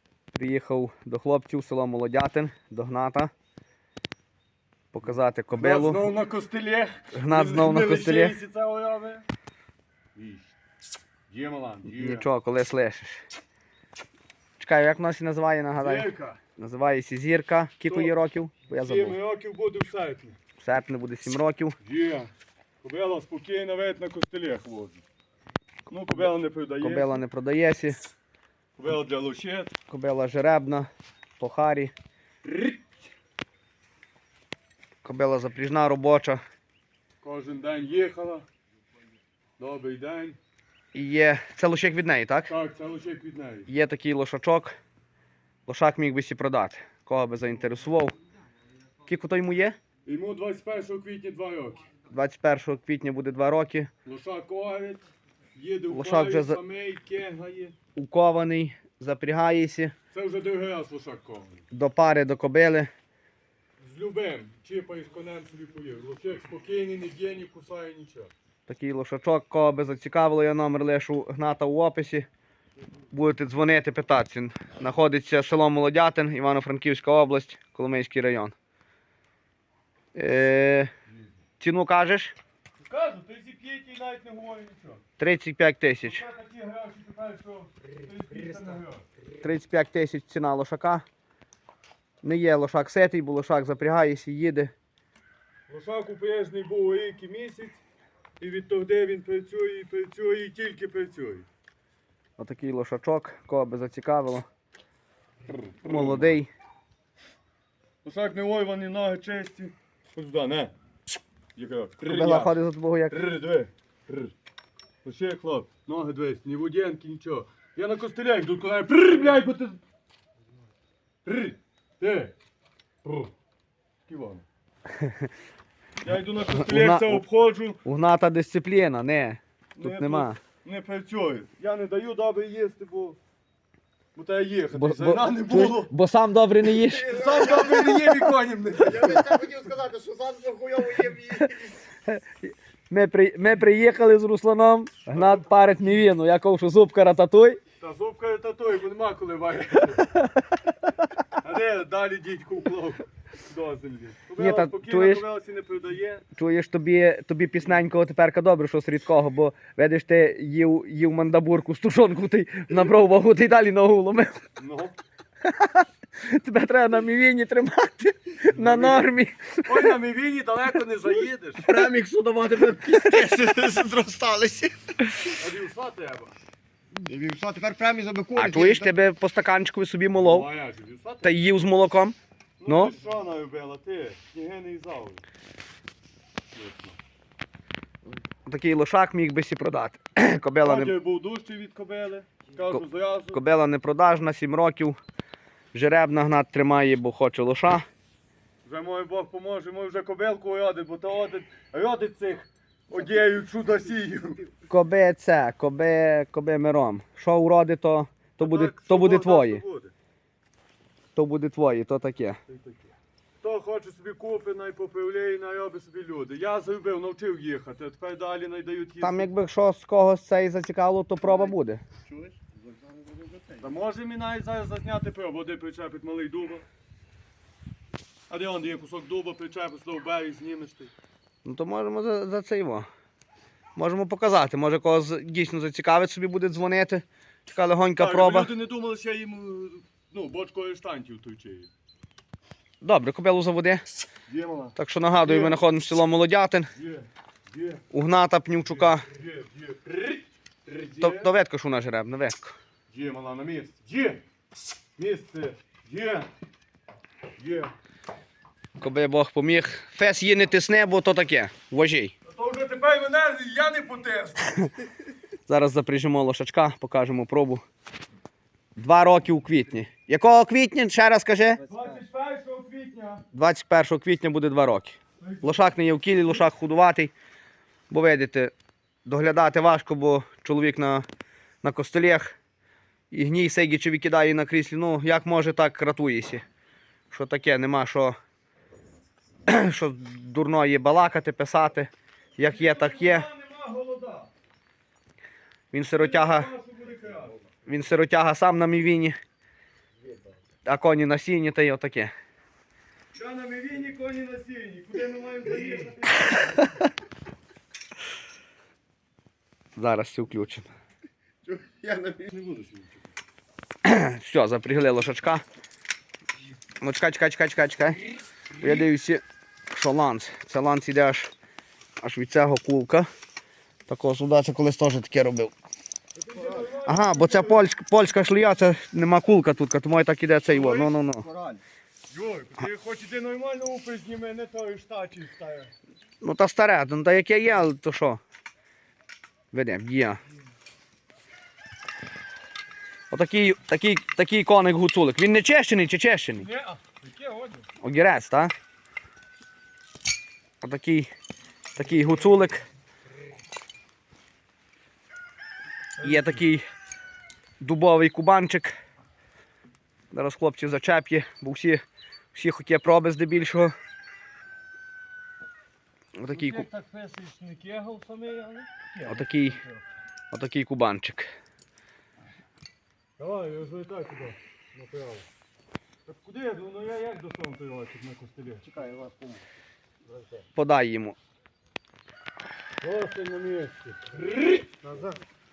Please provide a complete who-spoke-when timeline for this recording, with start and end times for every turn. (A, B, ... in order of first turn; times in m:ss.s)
0:00.3-0:03.3 A
0:04.9-0:06.1 A
0:05.5-0:09.2 B
0:07.1-0:08.4 A
0:10.1-0:10.6 B
0:11.3-0:12.3 B
0:11.8-0:13.2 A
0:14.6-0:19.2 A
0:15.8-0:16.4 B
0:17.8-0:18.1 B
0:18.7-0:20.4 B
0:20.6-0:21.8 A
0:21.8-0:22.3 B
0:22.8-0:25.0 B
0:25.9-0:27.2 B
0:26.8-0:28.0 A
0:28.8-0:29.7 B
0:29.9-0:31.9 A
0:32.4-0:32.9 B
0:35.0-0:36.4 A
0:37.2-0:38.4 B
0:39.6-0:40.4 B
0:40.9-0:42.5 A
0:42.5-0:43.7 B
0:43.7-0:44.7 A
0:45.7-0:48.1 A
0:49.0-0:49.8 A
0:50.0-0:51.9 B
0:52.1-0:53.9 A
0:54.0-0:55.0 B
0:55.5-0:57.8 B
0:55.9-0:56.6 A
0:58.0-0:59.9 A
1:00.1-1:01.6 B
1:01.7-1:02.9 A
1:03.8-1:08.3 B
1:08.7-1:12.3 A
1:13.1-1:18.5 A
1:20.1-1:20.9 A
1:21.6-1:22.3 A
1:22.8-1:25.0 B
1:25.2-1:26.2 A
1:26.0-1:29.0 B
1:29.4-1:31.0 A
1:32.2-1:34.7 A
1:35.7-1:37.8 B
1:38.4-1:41.5 B
1:42.4-1:44.4 A
1:45.5-1:46.4 B
1:45.8-1:46.5 A
1:48.0-1:50.7 B
1:51.6-1:52.6 B
1:52.0-1:53.3 A
1:53.1-1:54.3 B
1:55.0-1:59.8 B
2:01.2-2:02.3 B
2:03.0-2:03.3 B
2:04.0-2:04.4 B
2:05.0-2:05.3 A
2:06.0-2:07.8 B
2:06.5-2:07.2 A
2:07.8-2:10.4 A
2:09.8-2:13.2 B
2:14.1-2:15.9 B
2:14.7-2:17.3 A
2:17.0-2:19.2 B
2:17.2-2:18.0 C
2:18.8-2:21.8 C
2:21.9-2:27.6 A
2:25.1-2:25.5 B
2:27.8-2:30.1 B
2:31.4-2:36.2 B
2:34.4-2:35.2 A
2:36.4-2:44.4 A
2:44.6-2:45.0 B
2:45.4-2:49.9 A
2:48.5-2:49.1 B
2:49.6-2:51.7 B
2:51.6-2:53.4 A
2:52.5-2:54.8 C
2:55.3-2:56.3 B
2:57.0-2:58.9 C
2:58.3-3:00.5 A
3:00.2-3:01.3 B
3:01.2-3:02.9 A
3:02.6-3:05.2 B
3:06.5-3:07.0 B
3:08.4-3:11.0 A
3:10.6-3:13.4 B
3:12.7-3:15.0 A
3:15.7-3:17.8 A
3:18.6-3:24.4 B
3:24.7-3:29.6 A
3:28.4-3:29.9 B
3:31.2-3:32.4 A
3:32.5-3:39.3 B
3:39.0-3:41.8 A
3:41.2-3:43.7 C
3:43.6-3:46.6 B
3:48.3-3:50.9 B
3:51.4-3:52.9 A
3:53.8-3:58.5 A
3:58.0-4:01.7 B
4:02.8-4:03.9 A
4:04.3-4:05.6 B
4:04.8-4:06.7 A
4:06.7-4:07.8 B
4:07.9-4:09.0 A
4:08.7-4:11.3 B
4:11.0-4:12.5 A
4:12.9-4:14.2 B
4:15.0-4:16.3 B
4:17.4-4:17.7 B
4:18.8-4:22.1 A
4:22.2-4:24.7 B
4:25.5-4:27.6 A
4:28.8-4:31.6 A
4:31.6-4:33.2 B
4:33.3-4:37.1 A
4:35.2-4:35.7 B
4:37.9-4:38.5 A
4:39.0-4:41.0 A
4:41.6-4:42.3 A
4:43.1-4:46.4 A
4:47.1-4:48.1 A
4:49.5-4:53.3 A
4:52.4-4:54.3 B
4:55.7-4:56.5 A
4:55.9-4:57.4 B
4:57.6-4:59.2 A
5:00.6-5:02.1 A
5:03.1-5:06.8 B
5:09.8-5:10.7 A
5:11.5-5:11.9 C
5:11.8-5:13.1 B
5:13.8-5:15.4 A
5:16.8-5:21.3 A
5:18.5-5:18.8 B
5:22.0-5:23.1 A
5:23.9-5:25.5 A
5:26.1-5:27.6 B
5:26.3-5:26.6 C
5:26.8-5:31.3 A
5:30.5-5:30.8 B
5:30.6-5:31.6 C
5:32.1-5:35.7 B
5:36.2-5:38.2 A
5:39.5-5:40.2 A
5:43.1-5:46.5 A
5:46.4-5:47.7 B
5:47.8-5:48.5 A
5:50.6-5:51.1 A
5:51.7-5:52.6 A
5:56.0-5:56.5 B
5:56.0-5:56.6 A
5:57.6-5:58.7 A
6:00.1-6:01.8 A
6:02.3-6:03.7 A
6:06.2-6:06.6 A
6:06.3-6:09.8 B
6:09.0-6:09.6 A
6:10.3-6:11.3 A
6:13.2-6:15.2 B
6:16.0-6:18.7 B
6:18.6-6:19.4 C
6:20.1-6:20.4 B
6:20.5-6:21.2 A
6:22.8-6:25.1 B